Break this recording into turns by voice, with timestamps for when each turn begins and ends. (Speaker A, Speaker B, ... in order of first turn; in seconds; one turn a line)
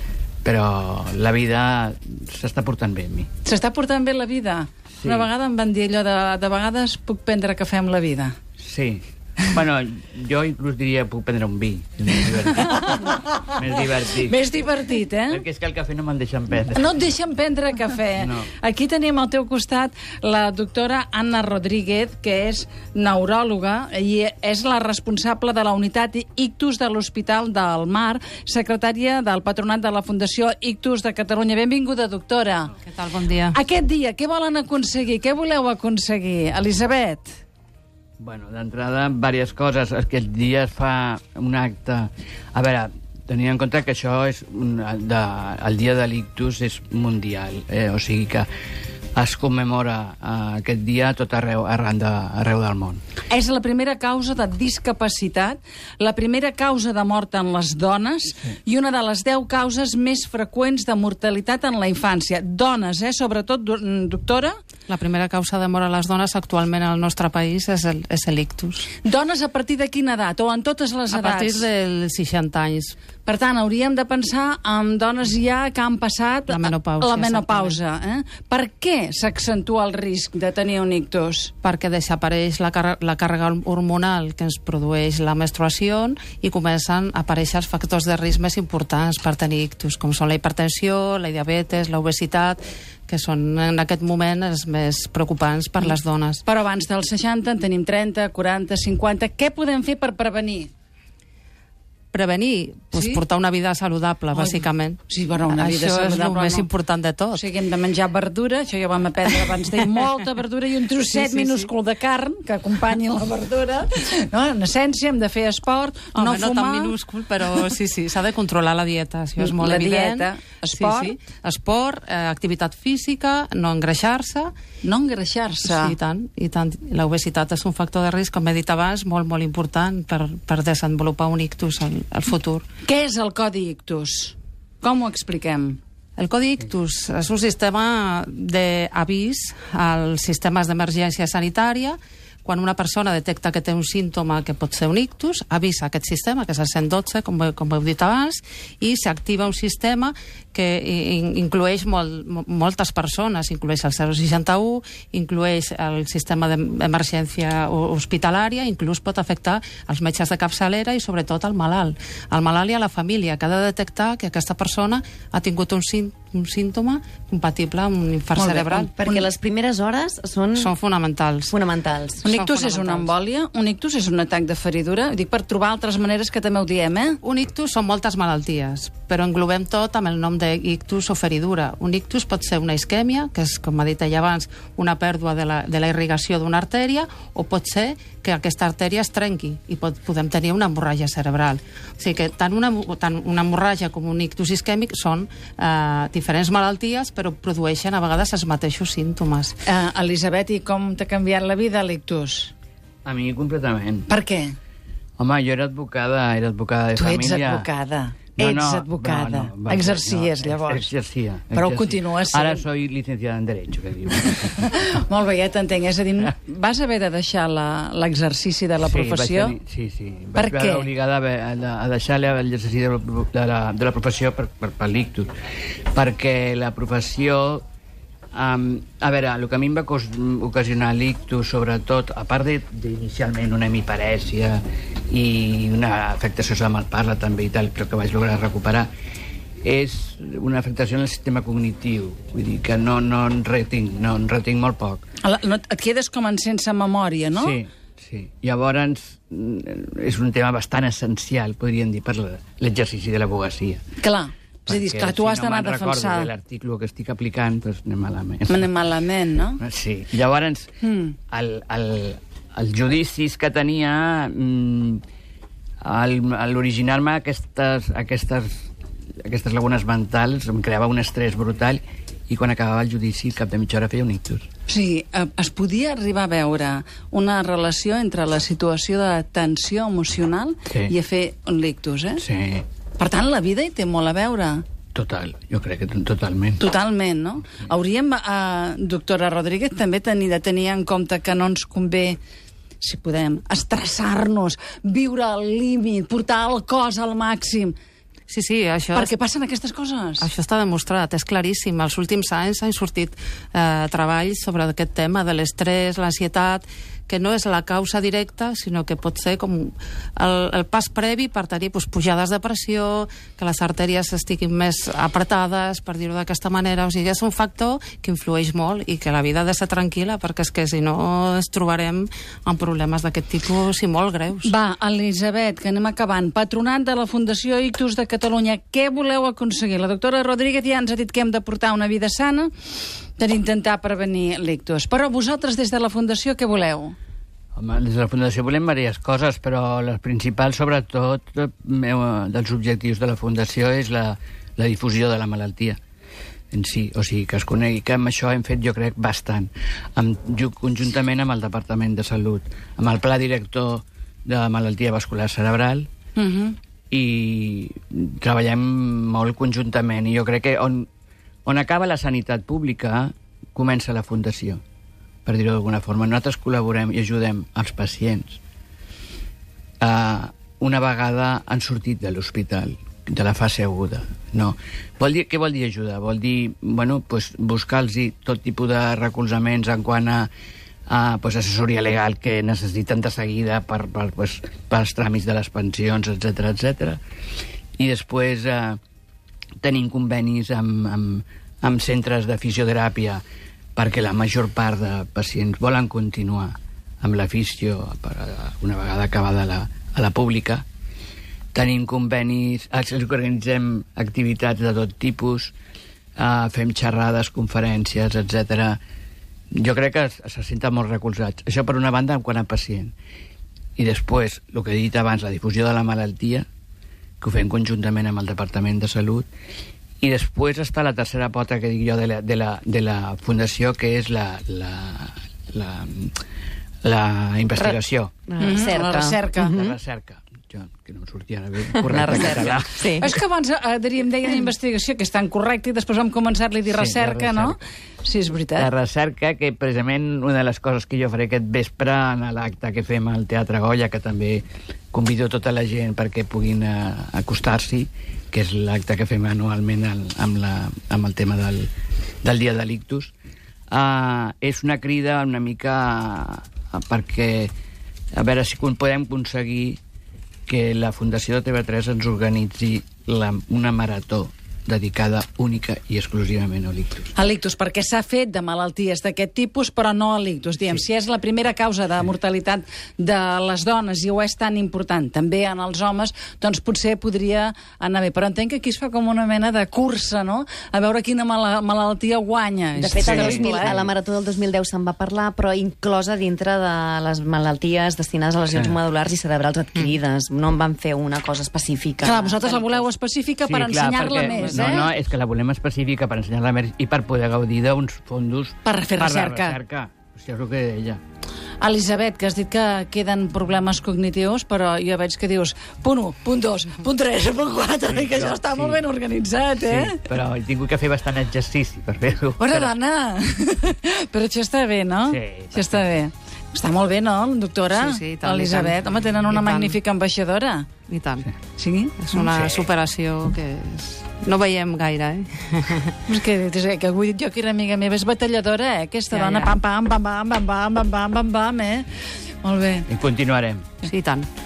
Speaker A: 0.4-3.3
Speaker B: 3.4-8.4
Speaker A: 5.0-5.3
Speaker A: 8.6-14.4
Speaker B: 12.7-13.5
Speaker B: 14.2-15.4
Speaker A: 15.3-17.0
Speaker B: 16.7-32.7
Speaker A: 18.2-18.5
Speaker C: 32.8-33.6
Speaker B: 33.5-37.4
Speaker A: 38.2-48.5
Speaker A: 49.1-53.0
Speaker B: 53.3-64.5
Speaker C: 64.9-68.9
Speaker B: 69.0-71.7
Speaker C: 71.1-73.0
Speaker B: 73.2-81.5
Speaker C: 76.5-77.8
Speaker C: 81.6-96.4
Speaker B: 96.4-100.7
Speaker C: 102.1-107.4
Speaker B: 102.9-103.2
Speaker B: 104.3-106.7
Speaker B: 107.3-116.9
Speaker C: 111.0-111.7
Speaker C: 116.1-124.5
Speaker B: 119.4-121.2
Speaker B: 124.8-126.0
Speaker C: 125.6-132.6
Speaker B: 132.8-135.8
Speaker C: 136.2-168.9
Speaker B: 168.4-169.2
Speaker D: 168.9-170.7
Speaker C: 170.5-171.5
Speaker D: 171.5-172.3
Speaker C: 172.2-173.1
Speaker B: 172.2-177.2
Speaker C: 177.2-199.6
Speaker B: 199.7-202.5
Speaker A: 203.0-204.1
Speaker B: 204.1-204.5
Speaker A: 205.2-207.7
Speaker B: 206.9-210.9
Speaker A: 208.4-215.0
Speaker B: 211.5-212.7
Speaker B: 214.3-219.5
Speaker A: 218.8-225.3
Speaker B: 220.3-220.9
Speaker A: 225.9-227.6
Speaker A: 228.3-238.9
Speaker A: 239.6-245.0
Speaker B: 245.2-247.6
Speaker A: 247.3-253.8
Speaker B: 254.0-256.3
Speaker A: 254.7-258.7
Speaker B: 258.5-259.6
Speaker A: 259.6-260.7
Speaker B: 260.8-261.1
Speaker A: 261.3-265.0
Speaker A: 265.8-268.6
Speaker A: 269.2-274.4
Speaker B: 274.7-282.2
Speaker A: 282.2-282.6
Speaker B: 283.0-284.6
Speaker A: 284.9-286.6
Speaker B: 286.6-292.2
Speaker B: 292.8-297.7
Speaker C: 298.3-299.1
Speaker B: 298.9-300.3
Speaker C: 300.2-324.5
Speaker B: 324.4-332.5
Speaker B: 333.2-336.9
Speaker A: 337.6-345.8
Speaker A: 346.5-355.9
Speaker B: 356.2-356.6
Speaker A: 356.9-360.9
Speaker A: 361.4-364.6
Speaker A: 365.2-368.4
Speaker A: 369.8-380.3
Speaker A: 380.9-387.0
Speaker A: 387.8-388.8
Speaker A: 389.6-393.2
Speaker A: 393.8-400.6
Speaker A: 401.5-405.5
Speaker A: 406.2-408.8
Speaker A: 409.5-412.9
Speaker A: 413.8-416.4
Speaker A: 417.2-419.3
Speaker A: 420.0-426.1
Speaker A: 426.8-428.3
Speaker D: 428.3-429.8
Speaker B: 428.4-429.5
Speaker A: 429.4-432.7
Speaker D: 431.7-433.1
Speaker B: 433.0-438.7
Speaker A: 436.7-437.6
Speaker A: 438.6-451.7
Speaker A: 452.2-453.1
Speaker A: 453.7-457.5
Speaker A: 458.1-459.8
Speaker A: 460.5-467.1
Speaker B: 467.1-483.8
Speaker D: 482.8-492.9
Speaker A: 483.0-483.9
Speaker A: 488.5-488.8
Speaker B: 492.0-494.9
Speaker A: 493.4-501.0
Speaker D: 494.3-494.7
Speaker B: 498.6-499.6
Speaker B: 501.6-510.0
Speaker A: 507.9-508.8
Speaker A: 509.6-512.7
Speaker B: 512.4-520.7
Speaker A: 515.1-515.8
Speaker C: 517.7-519.8
Speaker C: 520.9-521.3
Speaker B: 521.5-522.2
Speaker C: 522.0-526.0
Speaker A: 522.2-522.7
Speaker B: 526.1-531.9
Speaker C: 529.1-529.5
Speaker B: 532.4-532.9
Speaker A: 532.9-533.7
Speaker C: 533.8-534.3